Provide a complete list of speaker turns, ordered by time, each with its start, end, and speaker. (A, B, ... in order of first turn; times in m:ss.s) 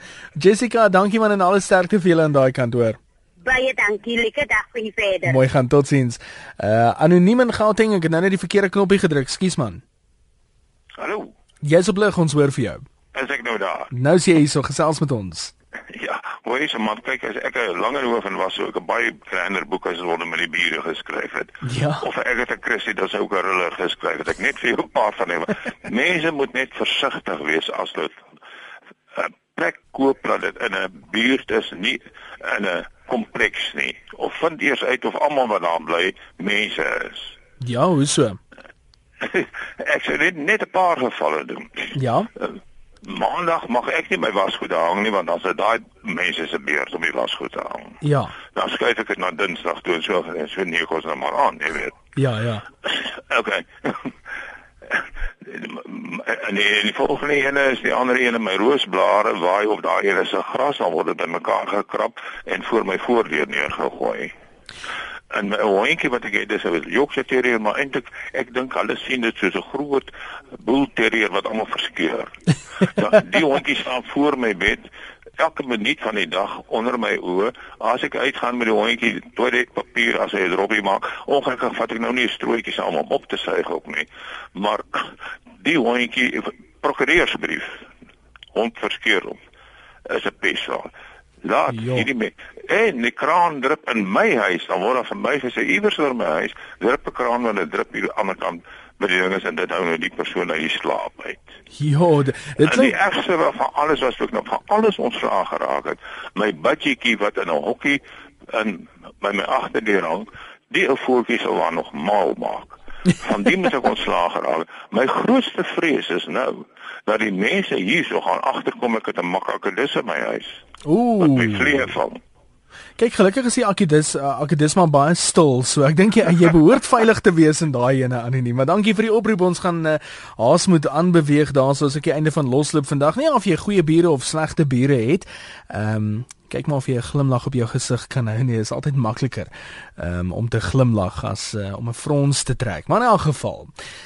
0:00.4-0:03.0 A
0:03.4-0:05.4 B
0:05.2-0:09.8 A
0:11.0-0:11.3 C
0:11.6-0:12.8 A
0:13.1-0:13.9 C
0:13.9-0:15.5 A
0:15.9-0:28.2 C
0:21.6-0:22.0 A
0:29.1-0:37.4 C
0:37.6-0:38.4 A
0:39.2-0:48.0 C
0:41.9-0:42.3 A
0:48.0-0:48.3 A
0:48.5-0:52.0 C
0:52.2-0:52.6 A
0:52.8-0:54.1 C
0:54.9-1:04.3 C
1:05.3-1:14.8 C
1:15.4-1:27.9 C
1:28.5-1:29.4 C
1:30.1-1:30.9 C
1:31.4-1:41.5 C
1:31.7-1:32.1 A
1:41.7-1:42.9 A
1:42.6-2:00.6 C
2:00.8-2:01.9 A
2:01.2-2:02.2 C
2:03.0-2:23.7 A